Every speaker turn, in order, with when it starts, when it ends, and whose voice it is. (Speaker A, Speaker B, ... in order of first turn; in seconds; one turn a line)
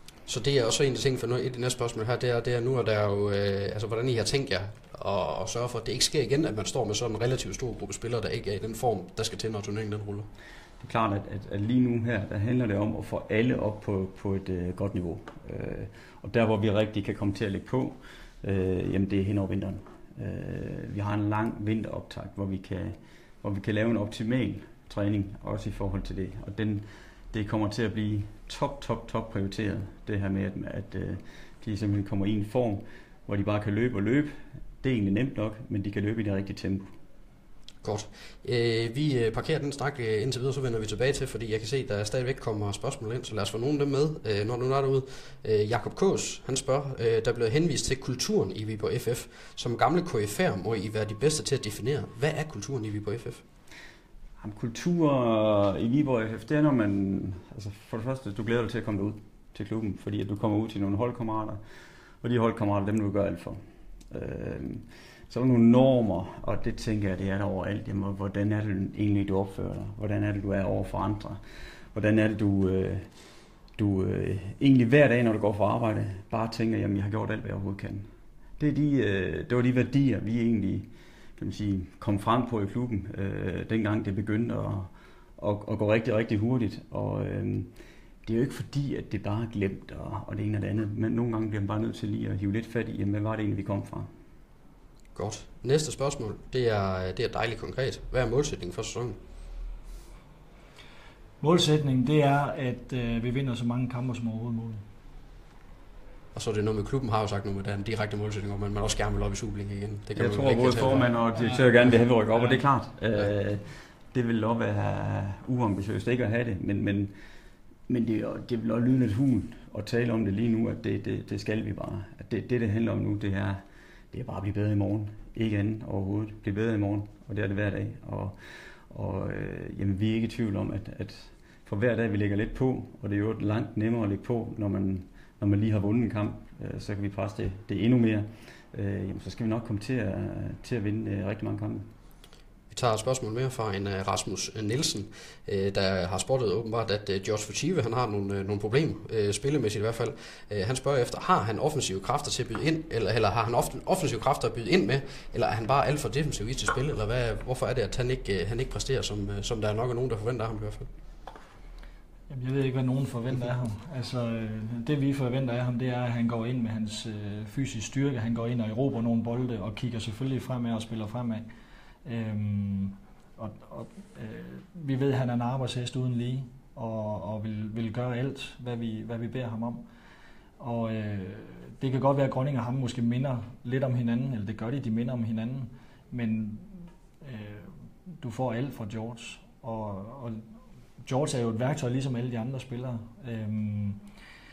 Speaker A: 0.3-10.3
Speaker B: 10.8-36.9
Speaker A: 37.8-53.4
Speaker B: 54.4-61.6
Speaker B: 62.2-71.4
Speaker B: 71.9-73.1
Speaker B: 73.8-78.1
Speaker B: 78.6-87.7
Speaker B: 88.2-94.1
Speaker A: 95.1-99.2
Speaker C: 101.4-104.8
Speaker A: 106.3-111.1
Speaker B: 110.2-117.1
Speaker C: 111.3-111.6
Speaker B: 117.9-141.8
Speaker A: 142.7-160.9
Speaker C: 162.3-171.4
Speaker C: 172.0-179.8
Speaker C: 180.6-190.4
Speaker C: 191.0-194.0